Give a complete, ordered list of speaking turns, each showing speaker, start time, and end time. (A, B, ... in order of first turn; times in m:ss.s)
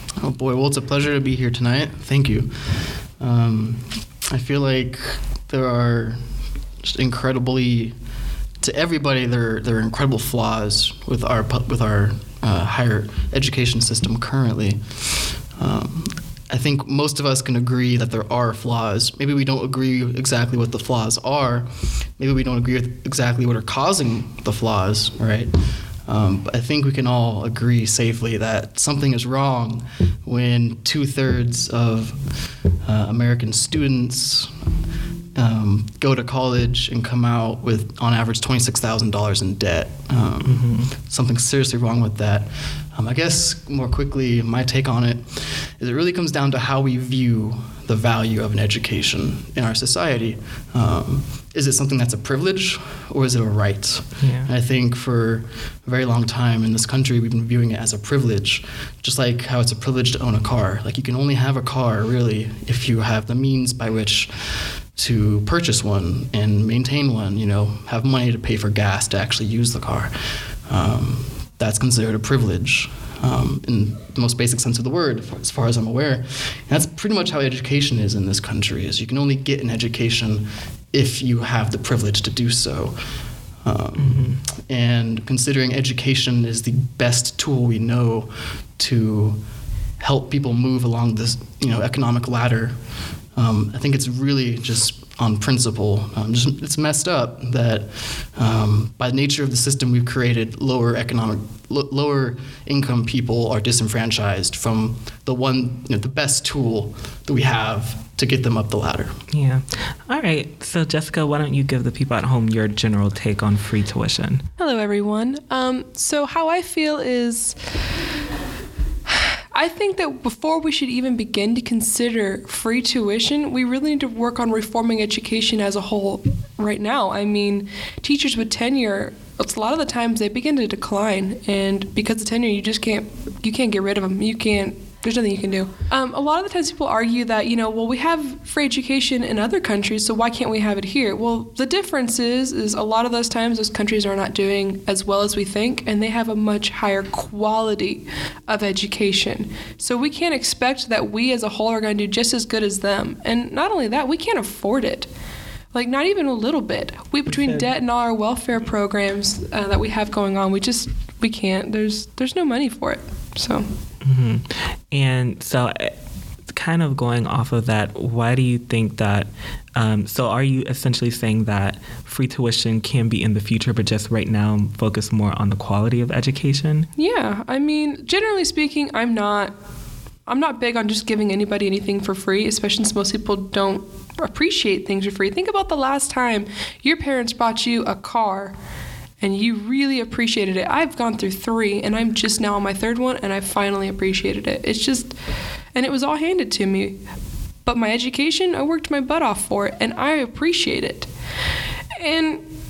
0:00.2-0:06.2 A
0:06.8-0:07.9 A
0:08.6-0:32.3 A
0:32.8-0:34.5 A
0:35.4-1:23.0 A
0:40.4-0:40.9 B
0:54.2-0:54.5 B
1:23.6-1:29.4 A
1:24.0-1:24.4 B
1:30.0-1:32.7 A
1:33.3-1:49.2 A
1:49.3-1:54.4 B
1:54.6-1:57.6 C
1:59.1-2:35.1 C
2:35.7-2:43.6 C
2:37.3-2:37.7 B
2:44.0-2:45.9 B
2:46.5-2:56.9 B
2:57.0-2:59.5 C
3:00.3-3:08.5 C
3:09.2-3:15.1 C
3:15.7-3:17.0 C
3:17.6-3:21.1 C
3:22.0-3:22.4 C